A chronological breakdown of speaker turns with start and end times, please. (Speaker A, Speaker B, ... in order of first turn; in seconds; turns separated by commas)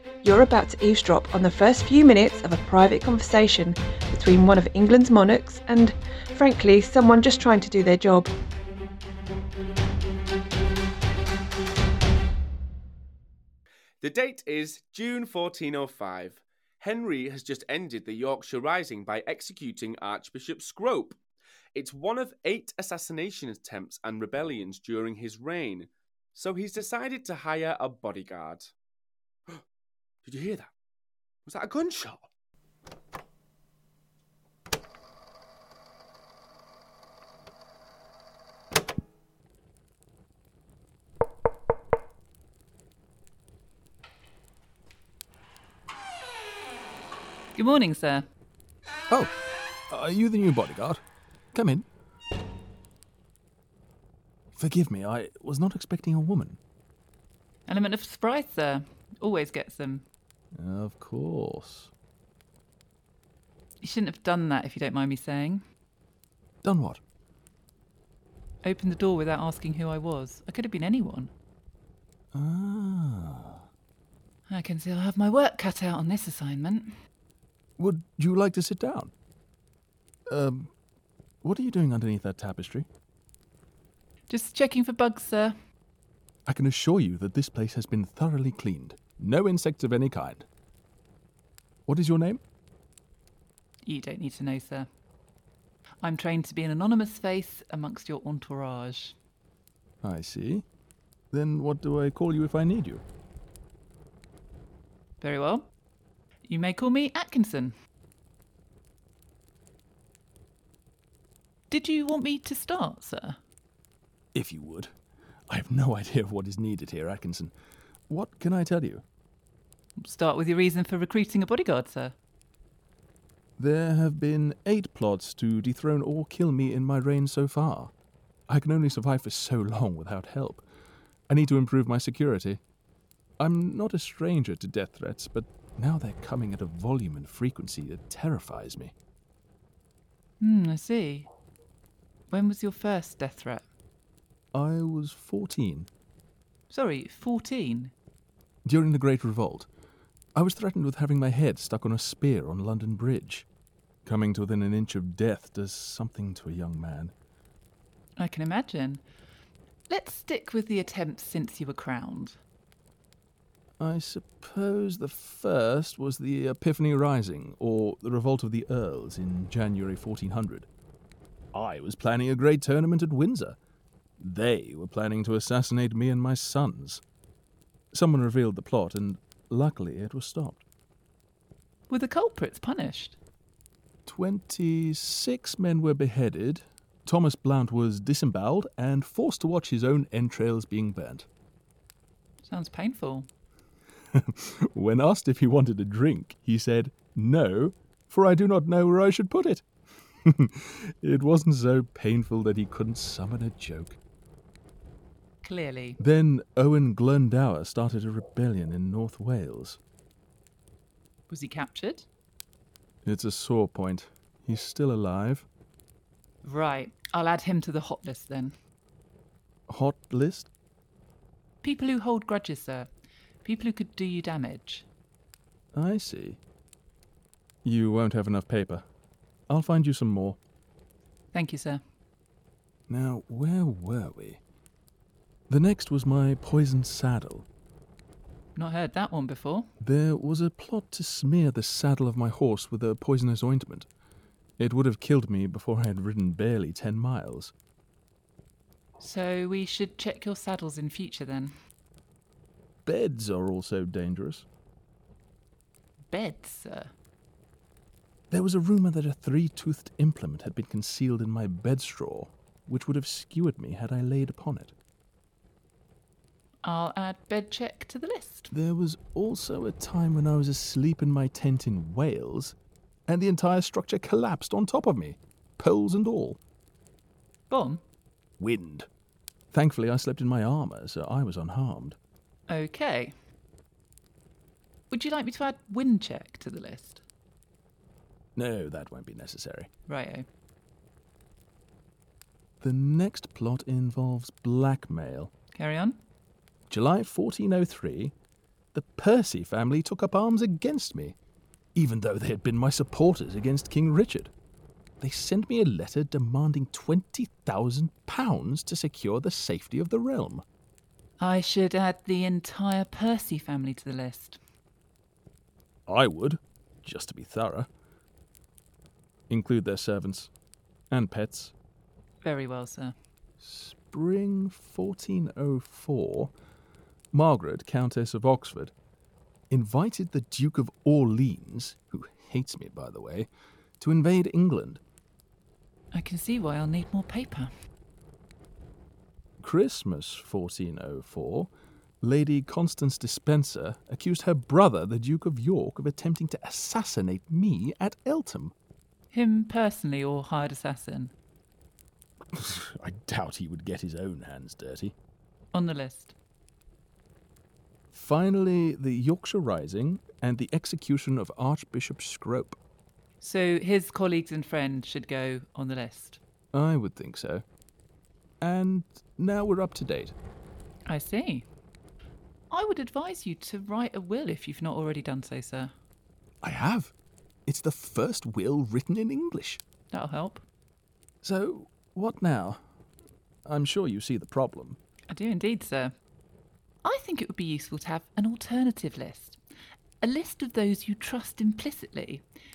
Speaker A: 0.2-8.3, Speaker B: 14.0-21.2, Speaker B: 21.8-28.7, Speaker B: 30.2-30.7, Speaker B: 31.5-32.3, Speaker C: 47.6-48.2, Speaker D: 49.9-51.0, Speaker D: 51.5-51.9, Speaker D: 54.6-56.6, Speaker C: 57.7-60.1, Speaker D: 60.5-61.9, Speaker C: 63.8-65.6, Speaker D: 66.6-67.0, Speaker C: 68.6-71.3, Speaker D: 72.3-73.6, Speaker C: 74.5-76.9, Speaker D: 77.8-79.1, Speaker D: 80.3-80.7, Speaker D: 81.4-82.9, Speaker C: 84.3-85.5, Speaker D: 86.5-90.5, Speaker D: 91.9-92.4, Speaker C: 93.9-94.9, Speaker C: 96.0-99.2, Speaker D: 100.0-100.7, Speaker D: 101.3-103.0, Speaker C: 105.2-105.7, Speaker C: 106.5-107.7, Speaker C: 111.7-113.4, Speaker D: 114.3-114.9, Speaker D: 115.5-117.5, Speaker D: 118.1-119.0, Speaker C: 120.0-122.2, Speaker D: 123.6-127.9, Speaker D: 128.5-130.6, Speaker D: 131.3-132.6, Speaker D: 133.4-138.9, Speaker C: 140.4-141.3, Speaker C: 142.3-143.7, Speaker D: 144.5-145.9, Speaker C: 146.7-147.9, Speaker D: 148.7-149.7, Speaker D: 150.4-153.5, Speaker D: 154.1-157.1, Speaker C: 158.2-159.0, Speaker C: 159.9-162.4, Speaker D: 163.8-170.7, Speaker D: 171.5-173.6, Speaker D: 174.2-177.0, Speaker D: 177.9-180.6, Speaker C: 181.9-183.2, Speaker D: 184.1-191.3, Speaker C: 192.4-193.3, Speaker D: 194.1-199.7, Speaker D: 200.3-204.0, Speaker C: 205.4-206.0, Speaker D: 206.0-209.8, Speaker C: 211.3-212.1, Speaker D: 213.1-215.5, Speaker C: 216.4-218.5, Speaker D: 219.7-220.5, Speaker C: 221.6-222.9, Speaker C: 223.4-224.9, Speaker D: 225.7-226.4, Speaker D: 227.6-228.8, Speaker D: 229.5-230.4, Speaker C: 231.3-231.8, Speaker D: 232.9-234.4, Speaker D: 235.5-237.5, Speaker C: 238.6-239.7, Speaker D: 239.8-243.9, Speaker D: 244.6-247.5, Speaker C: 249.0-251.5, Speaker D: 252.9-254.5, Speaker C: 256.1-256.9, Speaker D: 258.3-264.7, Speaker C: 266.6-268.5, Speaker D: 268.5-272.6, Speaker D: 273.1-276.4, Speaker C: 277.5-277.8, Speaker D: 278.4-278.9, Speaker D: 279.5-282.0, Speaker C: 282.5-283.1, Speaker C: 284.9-287.0, Speaker D: 288.4-289.7, Speaker C: 289.9-290.3, Speaker D: 292.6-295.3, Speaker C: 295.5-296.0, Speaker D: 296.7-298.1, Speaker D: 298.7-301.2, Speaker D: 301.8-304.3, Speaker D: 305.0-310.4, Speaker C: 311.2-314.4, Speaker D: 315.9-317.7, Speaker D: 319.3-320.3, Speaker D: 320.9-321.5, Speaker C: 322.2-322.9, Speaker D: 323.4-326.3, Speaker D: 327.1-328.7, Speaker D: 329.5-333.3, Speaker D: 333.8-334.8, Speaker C: 335.9-337.5, Speaker D: 339.4-341.5, Speaker D: 342.0-348.5, Speaker C: 349.1-351.1, Speaker D: 352.3-354.9, Speaker C: 355.5-356.1, Speaker D: 357.9-362.6, Speaker C: 363.2-366.2, Speaker D: 366.5-367.4, Speaker D: 368.4-370.1, Speaker C: 370.9-371.5, Speaker C: 372.5-375.7, Speaker D: 376.4-376.9, Speaker D: 377.5-379.6, Speaker C: 379.9-380.4, Speaker D: 381.2-382.6, Speaker D: 383.5-384.8, Speaker C: 385.1-385.9, Speaker C: 386.8-389.4, Speaker C: 390.0-392.2